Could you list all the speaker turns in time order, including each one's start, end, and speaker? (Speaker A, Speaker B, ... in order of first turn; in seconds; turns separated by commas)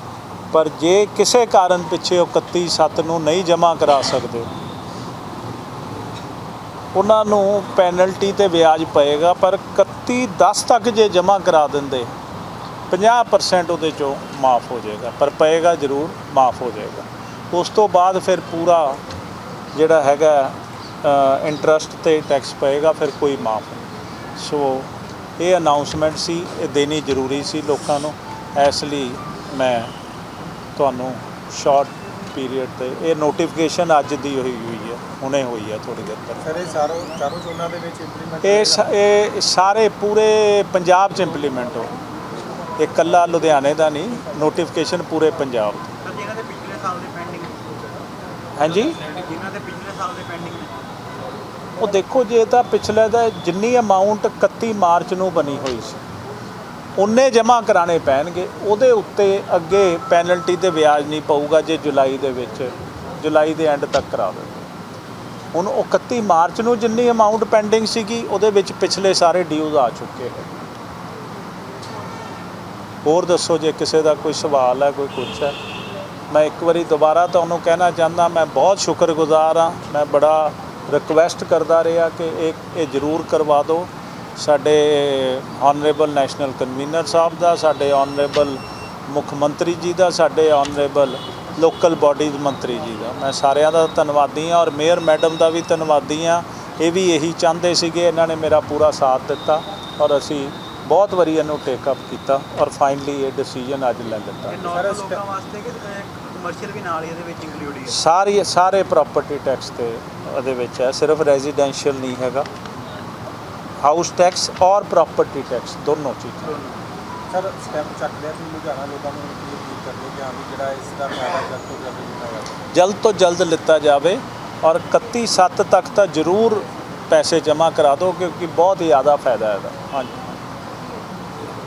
Speaker A: 0.5-4.5, Speaker A: 6.9-12.1, Speaker A: 12.9-19.0, Speaker A: 19.7-23.8, Speaker A: 24.4-29.9, Speaker A: 30.8-36.5, Speaker B: 36.4-38.9, Speaker A: 38.4-41.9, Speaker A: 42.8-45.9, Speaker C: 46.0-47.6, Speaker A: 48.5-49.0, Speaker C: 48.6-50.8, Speaker A: 51.8-56.0, Speaker A: 57.0-64.7, Speaker A: 65.5-70.5, Speaker A: 73.0-75.5, Speaker A: 76.3-104.7, Speaker C: 104.5-108.0, Speaker B: 104.7-105.2, Speaker A: 107.8-112.5, Speaker A: 113.8-116.6, Speaker C: 116.4-116.8, Speaker B: 117.3-122.7, Speaker A: 122.7-130.3